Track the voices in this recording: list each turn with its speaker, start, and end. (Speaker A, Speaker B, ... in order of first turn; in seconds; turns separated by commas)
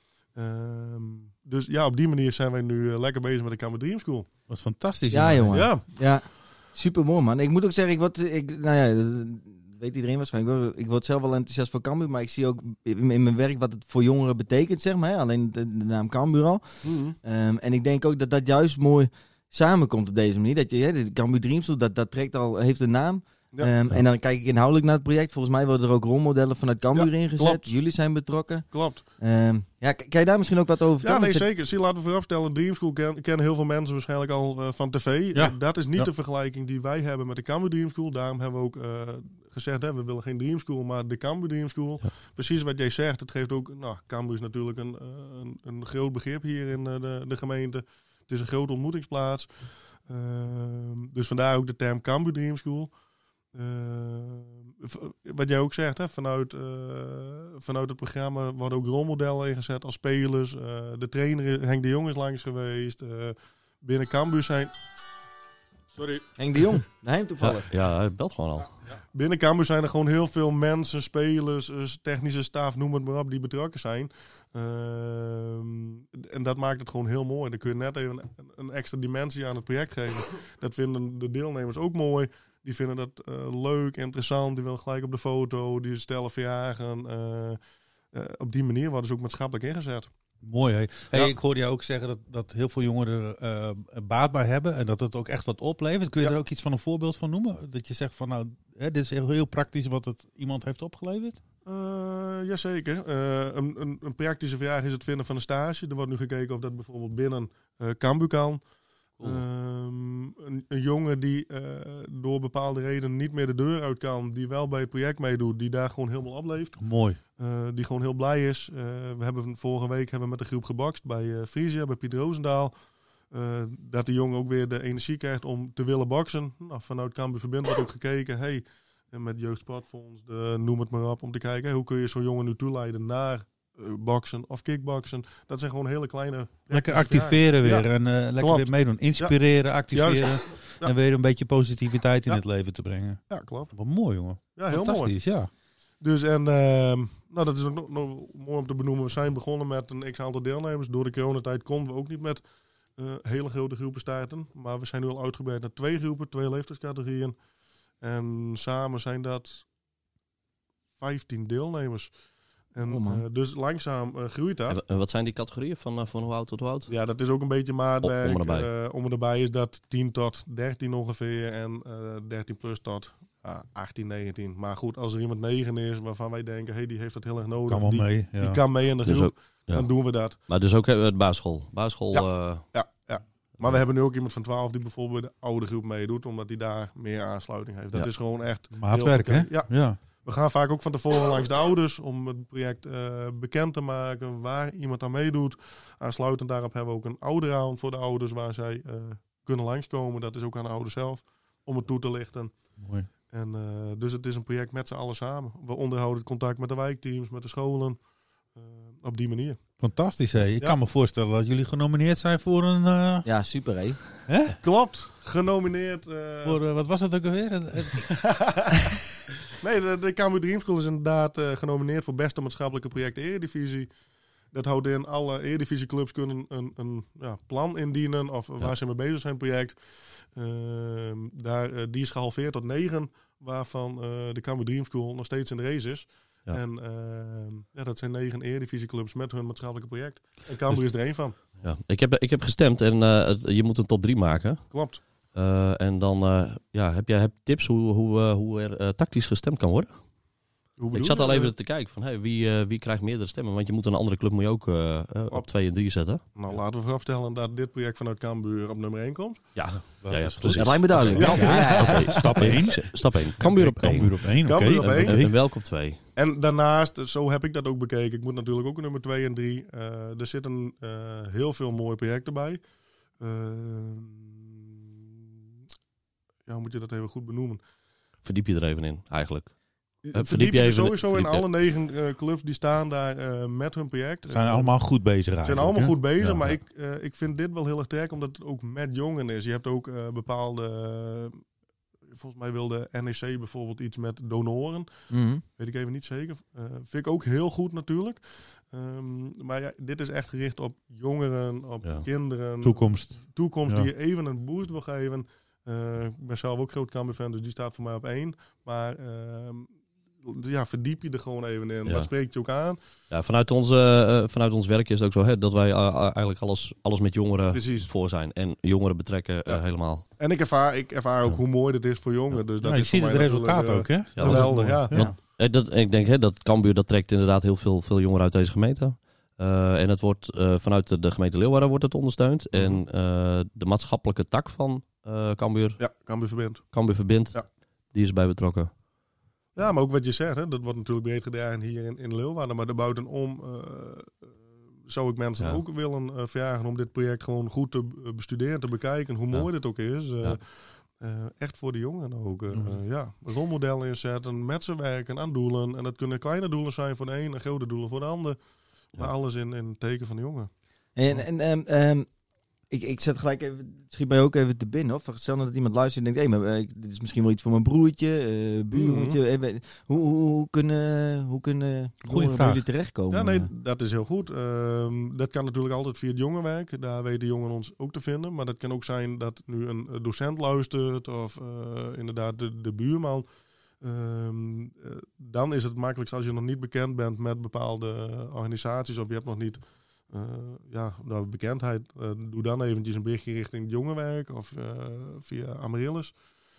Speaker A: 0.3-4.3, Speaker B: 4.5-5.6, Speaker C: 5.1-28.7, Speaker A: 5.5-5.8, Speaker A: 16.8-17.1, Speaker A: 26.9-27.7, Speaker A: 28.7-29.0, Speaker C: 29.2-31.5, Speaker A: 31.0-49.5, Speaker B: 35.3-36.1, Speaker A: 50.1-52.9, Speaker A: 53.5-64.7, Speaker C: 66.4-67.7, Speaker D: 67.4-68.7, Speaker A: 69.1-87.6, Speaker A: 88.1-90.1, Speaker B: 90.4-101.4, Speaker A: 101.6-108.6, Speaker A: 109.2-116.8, Speaker B: 116.8-117.2, Speaker A: 117.4-122.7, Speaker A: 123.3-139.3, Speaker B: 136.7-145.5, Speaker A: 139.9-140.9, Speaker A: 143.3-143.7, Speaker A: 144.5-145.1, Speaker A: 146.0-152.4, Speaker A: 153.0-157.3, Speaker A: 158.0-159.7, Speaker A: 161.0-162.1, Speaker A: 162.7-164.8, Speaker C: 162.8-163.2, Speaker D: 164.7-166.9, Speaker A: 166.9-180.4, Speaker D: 168.0-168.7, Speaker B: 177.7-178.6, Speaker D: 179.0-182.6, Speaker A: 182.1-202.5, Speaker B: 188.7-190.0, Speaker B: 202.8-203.1, Speaker A: 203.2-208.0, Speaker A: 208.5-209.6, Speaker B: 209.8-213.2, Speaker C: 213.2-214.0, Speaker B: 214.3-214.6, Speaker A: 214.6-216.6, Speaker B: 216.4-218.2, Speaker A: 218.2-218.7, Speaker A: 219.6-223.9, Speaker A: 224.5-229.8, Speaker A: 230.3-241.3, Speaker D: 241.4-244.7, Speaker A: 244.7-245.0, Speaker D: 245.3-249.9, Speaker A: 250.8-251.5, Speaker D: 250.9-256.2, Speaker A: 256.3-259.6, Speaker D: 259.6-266.0, Speaker B: 259.8-265.3, Speaker C: 260.5-262.5, Speaker A: 261.1-261.6, Speaker A: 264.4-265.4, Speaker A: 266.1-272.6, Speaker A: 273.2-274.7, Speaker A: 276.4-277.6, Speaker D: 278.2-279.5, Speaker A: 280.0-284.7, Speaker D: 280.1-281.5, Speaker B: 284.3-286.5, Speaker A: 285.4-291.4, Speaker A: 292.1-294.9, Speaker C: 295.1-295.4, Speaker A: 295.5-309.7, Speaker B: 302.6-303.9, Speaker A: 310.2-312.8, Speaker D: 313.1-320.1, Speaker A: 317.5-317.9, Speaker A: 319.5-325.0, Speaker B: 322.6-325.1, Speaker D: 324.1-335.8, Speaker A: 332.5-332.8, Speaker A: 335.8-337.4, Speaker D: 336.7-338.7, Speaker A: 339.6-344.2, Speaker A: 344.8-358.4, Speaker B: 352.5-352.8, Speaker A: 358.9-360.5, Speaker C: 360.9-362.1, Speaker C: 362.7-373.5, Speaker A: 368.7-369.2, Speaker B: 372.1-372.6, Speaker A: 373.1-383.2, Speaker A: 383.8-396.1